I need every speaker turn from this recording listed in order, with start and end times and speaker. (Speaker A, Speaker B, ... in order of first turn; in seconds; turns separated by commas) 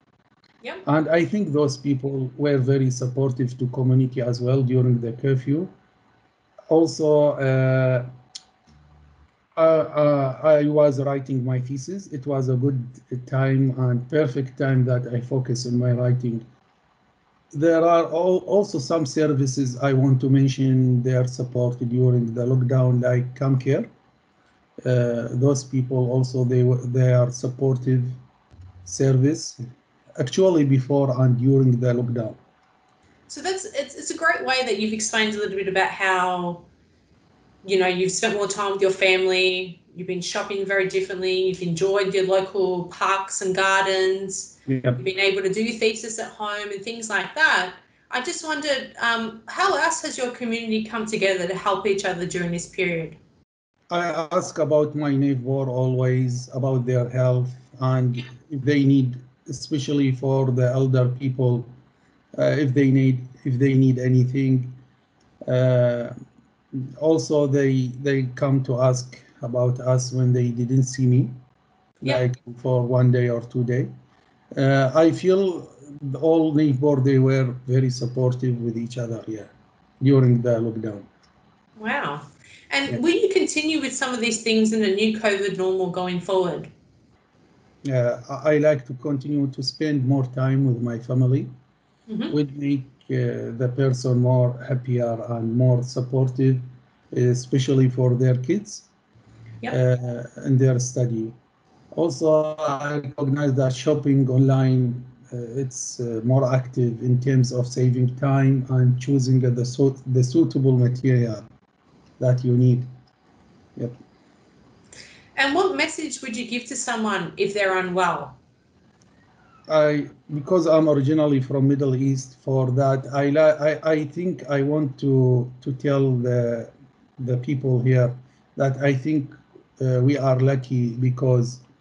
Speaker A: 0.8-5.7, Speaker A: 6.7-8.1, Speaker A: 9.6-16.4, Speaker A: 17.5-23.9, Speaker A: 24.8-28.1, Speaker A: 28.8-29.6, Speaker A: 30.2-32.4, Speaker B: 33.3-36.7, Speaker B: 37.6-53.2, Speaker A: 44.7-45.0, Speaker A: 53.9-61.7, Speaker A: 62.3-64.7, Speaker A: 65.5-66.1, Speaker A: 66.7-71.3, Speaker A: 72.0-73.9, Speaker A: 74.5-81.0, Speaker B: 81.8-86.7, Speaker A: 87.8-91.5, Speaker B: 92.1-92.3, Speaker A: 92.3-98.9, Speaker A: 99.7-101.3, Speaker A: 101.9-111.4, Speaker A: 112.2-112.9, Speaker B: 115.3-118.4, Speaker A: 119.7-131.6